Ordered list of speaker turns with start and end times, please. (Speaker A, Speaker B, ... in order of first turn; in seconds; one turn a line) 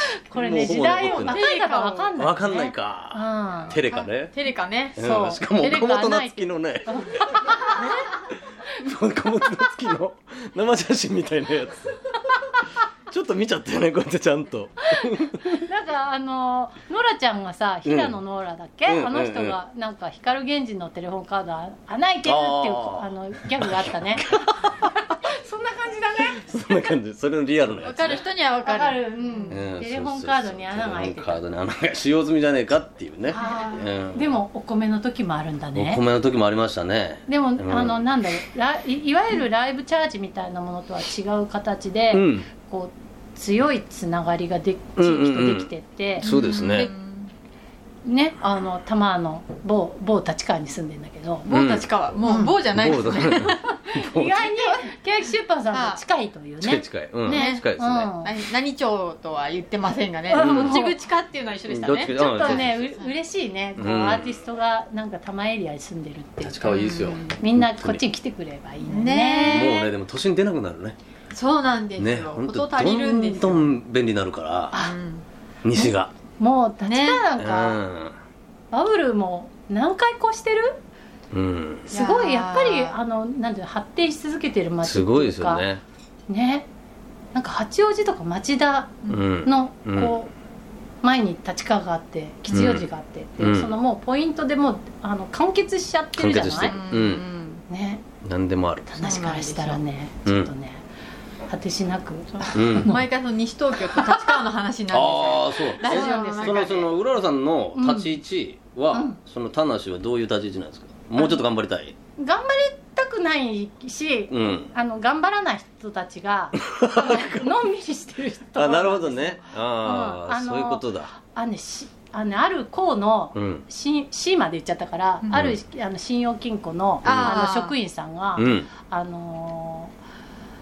Speaker A: 0.3-3.8
Speaker B: 0.3-1.4
Speaker C: 1.2-2.1
Speaker B: 2.2-4.3
Speaker C: 3.7-5.0
Speaker B: 5.0-11.9
Speaker A: 5.0-7.9
Speaker B: 13.1-15.6
Speaker A: 15.0-24.3
Speaker B: 17.8-18.2
Speaker B: 18.9-19.6
Speaker B: 22.2-24.9
Speaker A: 25.2-26.5
Speaker B: 26.4-28.2
Speaker C: 27.8-29.6
Speaker A: 28.6-31.4
Speaker B: 29.5-34.4
Speaker A: 33.3-36.0
Speaker B: 35.7-38.0
Speaker A: 37.3-46.3
Speaker B: 42.1-42.5
Speaker B: 45.0-46.9
Speaker C: 46.2-47.3
Speaker A: 48.0-51.6
Speaker C: 51.5-53.9
Speaker B: 51.5-51.9
Speaker A: 52.2-52.5
Speaker B: 52.7-54.4
Speaker A: 54.0-58.3
Speaker C: 55.7-56.0
Speaker B: 56.6-58.1
Speaker C: 57.2-57.6
Speaker C: 58.2-63.1
Speaker A: 60.3-60.9
Speaker B: 60.3-60.8
Speaker B: 61.7-62.7
Speaker A: 62.1-69.9
Speaker B: 63.8-64.4
Speaker B: 66.4-68.0
Speaker C: 66.7-67.4
Speaker C: 68.9-69.9
Speaker B: 69.4-71.0
Speaker C: 71.3-73.7
Speaker B: 72.0-74.7
Speaker C: 74.7-75.2
Speaker B: 75.6-76.1
Speaker A: 75.8-77.8
Speaker C: 76.8-77.2
Speaker B: 77.4-78.2
Speaker A: 78.7-80.8
Speaker B: 81.3-81.9
Speaker A: 81.9-85.6
Speaker C: 81.9-82.9
Speaker B: 84.8-85.8
Speaker A: 86.3-86.7
Speaker A: 87.3-90.3
Speaker B: 89.1-90.2
Speaker A: 91.0-96.8
Speaker B: 92.5-92.9
Speaker B: 93.4-93.7
Speaker B: 96.2-97.2
Speaker C: 96.7-97.6
Speaker A: 97.7-98.0
Speaker B: 98.2-99.0
Speaker A: 98.9-100.8
Speaker C: 99.0-99.8
Speaker A: 101.5-103.0
Speaker C: 102.3-106.9
Speaker B: 102.5-102.9
Speaker B: 104.9-111.9
Speaker A: 105.8-106.9
Speaker A: 107.8-108.2
Speaker A: 108.9-109.2
Speaker A: 112.2-129.9
Speaker B: 114.3-114.7
Speaker B: 116.7-117.6
Speaker B: 118.5-121.1
Speaker C: 119.8-120.2
Speaker B: 123.3-123.6
Speaker B: 127.0-127.4
Speaker C: 127.0-127.8
Speaker B: 128.4-128.7